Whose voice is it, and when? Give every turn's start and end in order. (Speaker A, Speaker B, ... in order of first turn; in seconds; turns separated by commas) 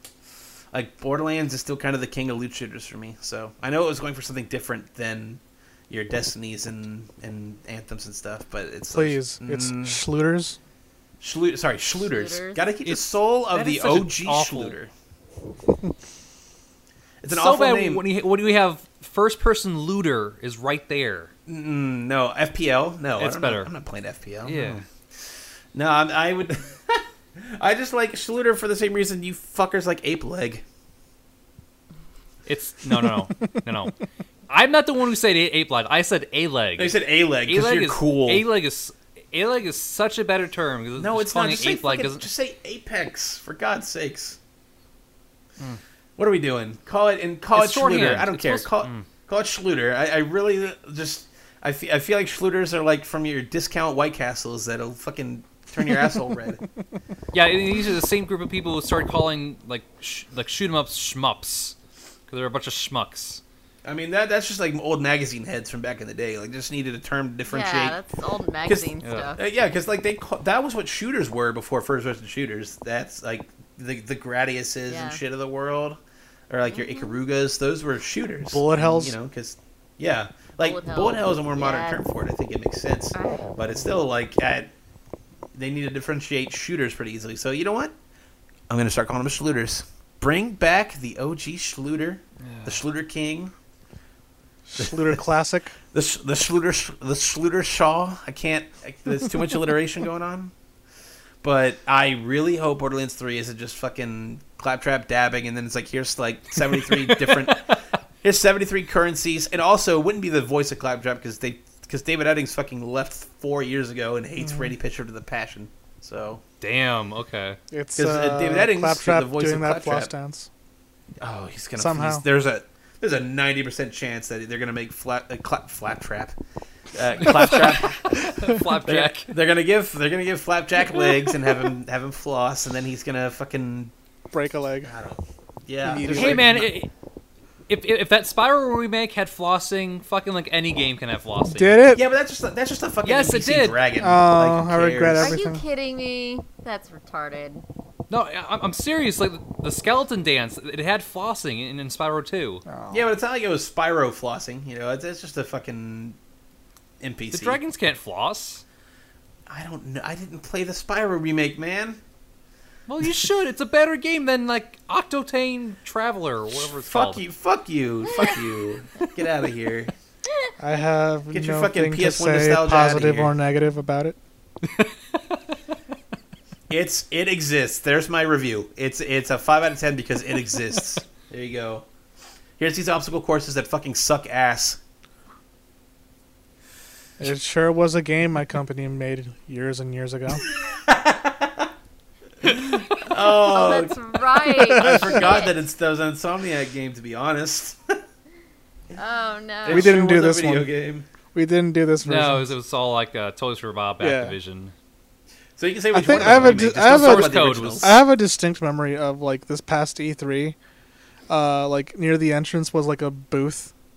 Speaker A: 0.7-10.0, Speaker B: 8.9-10.6, Speaker A: 11.2-14.9, Speaker C: 12.1-12.7, Speaker D: 12.8-14.8, Speaker A: 17.2-18.0, Speaker D: 17.3-21.3, Speaker A: 21.5-30.6, Speaker D: 23.2-23.7, Speaker D: 24.4-24.8, Speaker D: 32.5-34.0, Speaker B: 33.1-33.6, Speaker D: 34.5-42.3, Speaker A: 36.8-38.5, Speaker A: 41.0-44.4, Speaker A: 46.2-56.6, Speaker D: 47.5-49.1, Speaker D: 57.3-61.8, Speaker D: 62.3-63.4, Speaker A: 63.8-68.0, Speaker C: 67.5-69.4, Speaker A: 68.7-76.0, Speaker D: 69.0-69.3, Speaker C: 74.9-75.2, Speaker A: 76.5-84.7, Speaker C: 76.7-77.2, Speaker B: 78.5-79.2, Speaker C: 80.6-82.0, Speaker C: 83.1-83.5, Speaker A: 85.5-87.9, Speaker A: 88.7-93.5, Speaker D: 92.4-92.8, Speaker B: 94.7-95.8, Speaker A: 95.9-100.5, Speaker A: 101.4-116.4, Speaker D: 116.6-117.6, Speaker B: 117.7-120.5, Speaker A: 118.0-120.1, Speaker A: 121.2-126.4, Speaker B: 121.8-122.2, Speaker A: 126.9-133.9, Speaker D: 127.4-129.3, Speaker B: 134.3-134.9, Speaker A: 134.8-136.8, Speaker B: 135.8-136.5, Speaker D: 135.9-136.9, Speaker D: 137.7-141.8, Speaker B: 141.5-142.0, Speaker A: 141.9-145.4, Speaker D: 143.0-143.8, Speaker B: 144.0-145.6, Speaker C: 145.2-147.7, Speaker D: 148.1-152.6, Speaker B: 152.7-153.1, Speaker A: 152.9-156.2, Speaker A: 157.0-157.6, Speaker D: 157.3-158.6, Speaker A: 159.5-162.0, Speaker D: 162.9-167.2, Speaker A: 166.5-169.9, Speaker B: 170.6-174.2, Speaker A: 171.3-173.3, Speaker D: 174.6-175.4, Speaker A: 176.7-181.9, Speaker A: 182.6-184.8, Speaker B: 187.2-190.4, Speaker A: 190.5-191.7, Speaker A: 192.4-198.0, Speaker C: 193.4-195.6, Speaker B: 194.8-195.2, Speaker C: 198.9-200.0, Speaker A: 199.7-201.1, Speaker B: 199.7-200.7, Speaker B: 201.3-202.5, Speaker D: 202.0-204.7, Speaker B: 204.0-204.3, Speaker A: 205.6-208.0, Speaker B: 205.9-210.6, Speaker D: 206.1-208.0, Speaker B: 211.3-213.7